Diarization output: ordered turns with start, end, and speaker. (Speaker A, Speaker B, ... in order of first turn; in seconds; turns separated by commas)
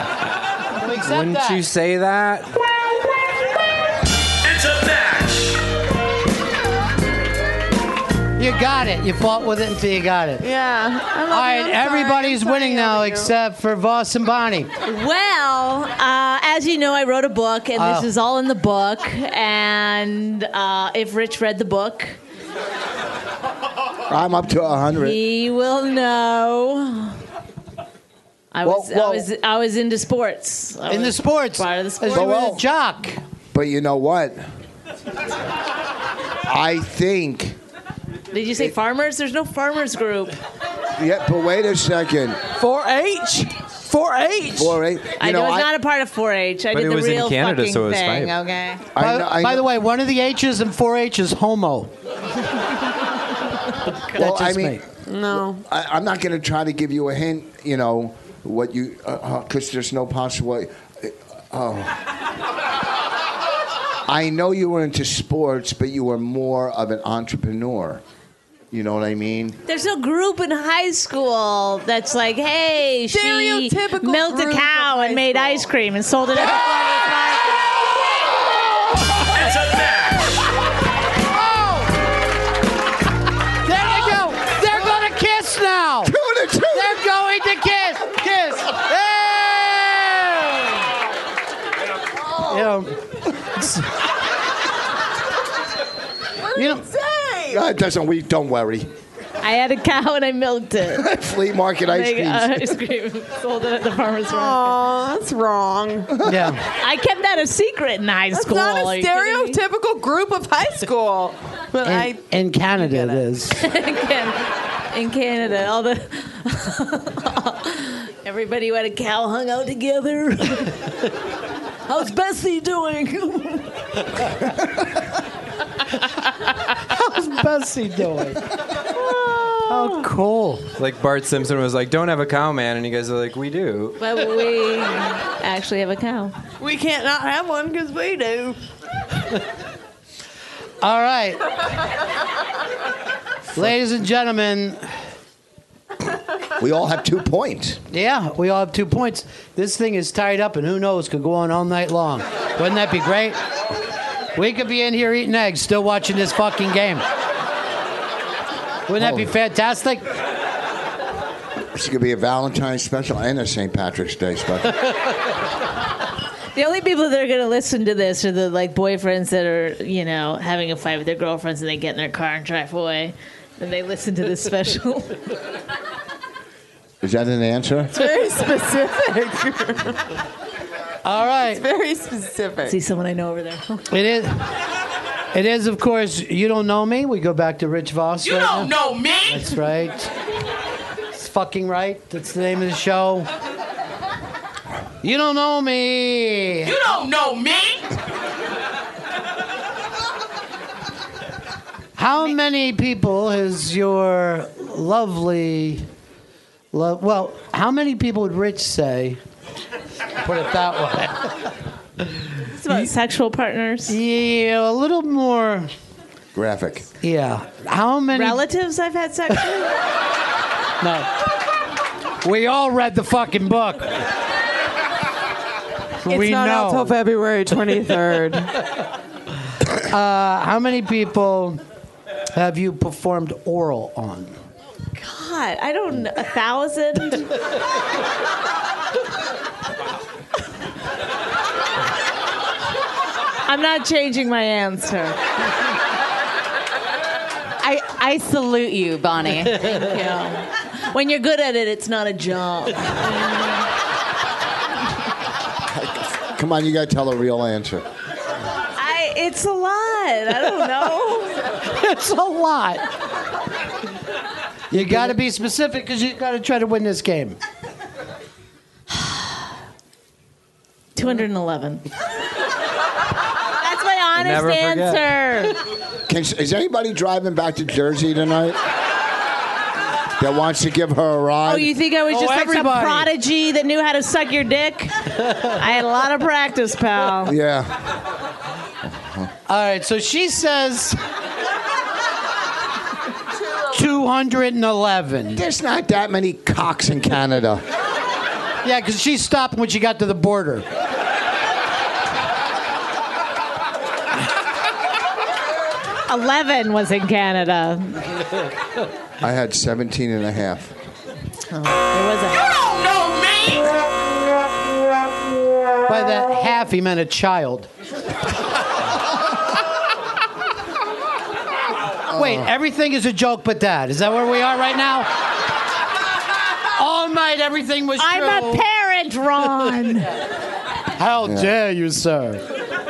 Speaker A: 0.8-1.6, Speaker B: 1.0-2.6, Speaker C: 4.4-5.7, Speaker A: 8.4-10.4, Speaker D: 10.4-13.3, Speaker A: 11.3-14.7, Speaker E: 14.8-22.2, Speaker A: 17.8-18.1, Speaker F: 24.1-25.2, Speaker E: 24.9-27.2, Speaker E: 28.5-32.4, Speaker F: 28.6-29.2, Speaker A: 30.9-33.2, Speaker F: 32.1-32.6, Speaker F: 33.5-34.4, Speaker F: 36.5-37.6, Speaker E: 38.3-40.4, Speaker F: 41.0-42.4, Speaker D: 42.5-44.8, Speaker F: 44.5-45.7, Speaker E: 45.2-48.8, Speaker B: 46.7-48.3, Speaker F: 48.9-49.7, Speaker A: 49.0-51.9, Speaker A: 54.1-54.8, Speaker F: 54.1-62.0, Speaker D: 55.0-55.6, Speaker F: 64.0-68.0, Speaker F: 68.7-69.6, Speaker E: 69.7-76.7, Speaker D: 73.1-75.7, Speaker A: 76.4-77.5, Speaker C: 79.3-80.4, Speaker A: 81.3-81.9, Speaker A: 83.6-86.1, Speaker F: 86.0-87.0, Speaker A: 86.7-90.8, Speaker A: 92.4-93.0, Speaker D: 96.5-97.6, Speaker A: 96.5-96.8, Speaker F: 97.5-98.9, Speaker E: 99.4-101.1, Speaker F: 100.9-102.8, Speaker E: 101.9-104.8, Speaker D: 104.3-106.2, Speaker F: 106.2-106.5, Speaker A: 106.2-106.6, Speaker E: 106.8-109.6, Speaker D: 108.3-113.2, Speaker A: 111.8-113.6, Speaker E: 113.5-120.8, Speaker E: 121.8-124.0, Speaker A: 126.9-128.4, Speaker D: 129.1-130.0, Speaker A: 129.7-130.6, Speaker B: 130.8-134.0, Speaker E: 134.0-136.3, Speaker D: 136.6-138.6, Speaker A: 140.8-141.4, Speaker A: 143.6-144.8, Speaker F: 146.6-147.8, Speaker A: 147.9-153.4, Speaker A: 154.3-157.0, Speaker A: 158.9-160.0, Speaker F: 159.0-159.3, Speaker F: 161.7-164.9, Speaker E: 166.5-175.2, Speaker F: 177.0-177.9, Speaker D: 177.9-180.0, Speaker A: 181.0-181.6, Speaker D: 181.4-182.8, Speaker E: 182.7-183.8, Speaker A: 183.9-184.5, Speaker A: 185.3-188.7, Speaker G: 188.2-189.5, Speaker A: 189.3-190.1, Speaker A: 191.1-193.3, Speaker A: 195.0-196.7, Speaker G: 196.6-197.9, Speaker A: 201.9-205.8, Speaker A: 206.7-209.2, Speaker A: 210.2-211.3, Speaker E: 212.5-213.9, Speaker A: 213.9-215.7, Speaker F: 216.3-216.9, Speaker A: 217.0-218.4, Speaker E: 218.1-219.7, Speaker A: 220.8-221.1, Speaker A: 222.2-224.0, Speaker D: 226.0-228.5, Speaker A: 226.1-226.9, Speaker A: 229.8-231.6, Speaker A: 232.3-234.3, Speaker E: 234.9-237.3, Speaker E: 243.4-245.2, Speaker H: 247.6-249.8, Speaker E: 249.8-253.3, Speaker F: 255.7-257.9, Speaker E: 258.8-261.4, Speaker A: 261.6-262.8, Speaker A: 264.7-267.4, Speaker F: 264.7-265.1, Speaker E: 270.9-271.8, Speaker E: 273.6-275.6, Speaker B: 274.2-275.0, Speaker F: 276.1-278.6, Speaker F: 280.2-281.7, Speaker E: 281.4-287.3, Speaker A: 282.1-283.1, Speaker F: 287.2-287.8, Speaker F: 289.0-289.3, Speaker A: 289.5-291.0, Speaker A: 293.7-295.4, Speaker F: 295.3-297.6, Speaker A: 298.6-300.6, Speaker E: 306.1-308.0, Speaker F: 309.2-310.7, Speaker E: 311.5-312.6, Speaker G: 312.5-313.8, Speaker A: 315.9-317.7, Speaker F: 322.1-322.5, Speaker A: 322.1-325.1, Speaker A: 326.8-328.6, Speaker E: 328.0-330.1, Speaker A: 331.0-332.4, Speaker F: 331.2-331.5